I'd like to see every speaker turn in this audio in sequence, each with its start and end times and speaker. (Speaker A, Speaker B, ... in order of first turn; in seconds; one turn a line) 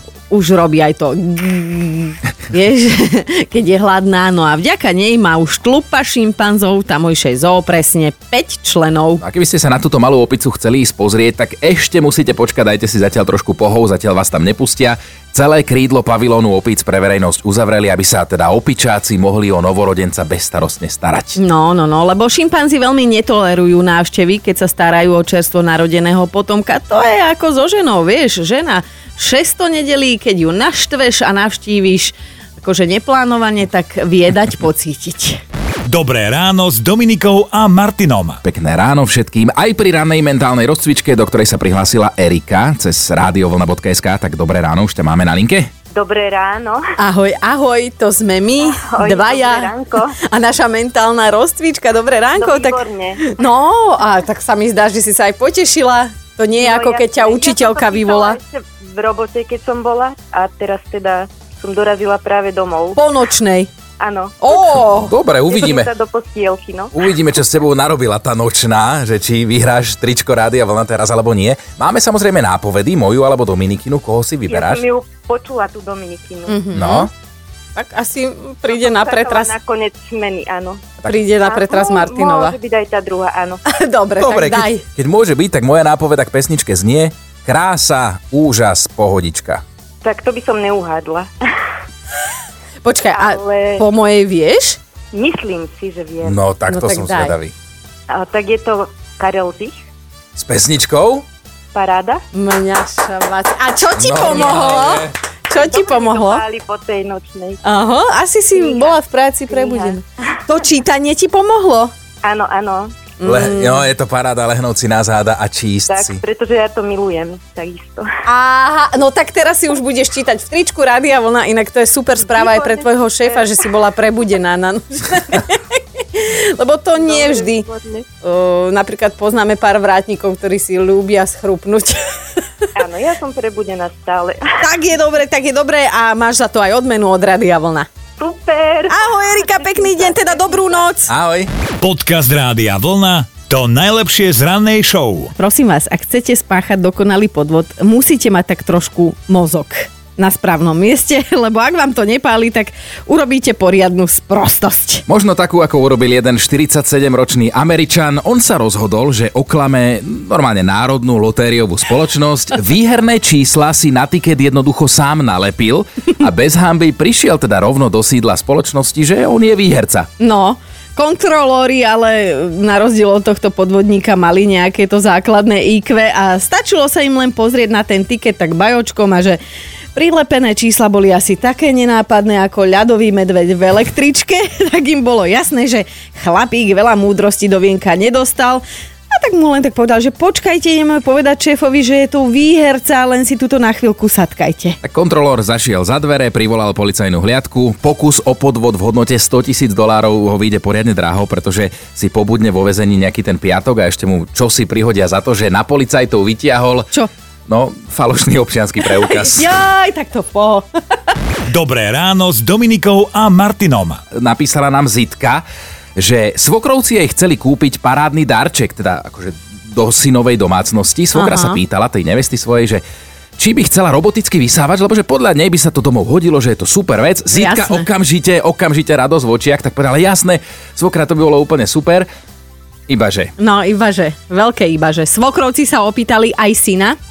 Speaker A: 0.3-9.2
Speaker B: 9.2-21.4
Speaker A: 21.4-35.4
Speaker C: 35.9-38.4
Speaker B: 38.4-45.7
Speaker D: 45.9-46.8
Speaker A: 47.0-49.7
Speaker D: 48.8-50.1
Speaker A: 50.3-58.4
Speaker D: 52.4-53.2
Speaker D: 56.6-63.0
Speaker A: 63.0-63.7
Speaker D: 64.0-64.5
Speaker A: 64.4-65.1
Speaker B: 64.8-65.9
Speaker D: 65.5-66.9
Speaker B: 66.9-74.8
Speaker D: 74.5-76.6
Speaker A: 76.5-77.1
Speaker B: 76.7-77.1
Speaker A: 77.8-79.5
Speaker D: 78.7-83.6
Speaker A: 81.0-82.5
Speaker A: 83.7-84.8
Speaker B: 84.2-89.6
Speaker D: 90.0-91.3
Speaker A: 92.8-94.8
Speaker D: 93.1-93.8
Speaker D: 95.1-96.3
Speaker B: 96.2-97.5
Speaker A: 96.7-97.4
Speaker D: 98.1-99.8
Speaker B: 100.3-101.2
Speaker D: 101.7-102.2
Speaker A: 102.3-106.4
Speaker B: 104.0-105.1
Speaker D: 105.5-107.6
Speaker A: 107.6-111.9
Speaker D: 108.5-108.9
Speaker D: 109.5-110.0
Speaker D: 112.2-113.1
Speaker A: 113.2-113.9
Speaker B: 113.2-116.2
Speaker D: 115.9-118.1
Speaker A: 118.2-127.7
Speaker D: 122.2-123.6
Speaker D: 127.0-128.1
Speaker A: 128.2-132.0
Speaker D: 132.8-134.4
Speaker A: 134.6-137.9
Speaker D: 138.2-140.9
Speaker A: 138.9-141.1
Speaker B: 141.1-141.5
Speaker C: 141.8-145.3
Speaker A: 145.3-155.0
Speaker B: 155.1-170.1
Speaker A: 170.2-179.4
Speaker A: 179.9-194.8
Speaker B: 194.8-206.9
Speaker B: 207.5-209.5
Speaker A: 208.8-210.7
Speaker C: 211.5-214.0
Speaker B: 214.1-215.4
Speaker B: 216.0-222.8
Speaker A: 221.1-221.6
Speaker B: 223.4-232.1
Speaker A: 227.3-227.9
Speaker B: 232.9-233.3
Speaker A: 233.4-236.9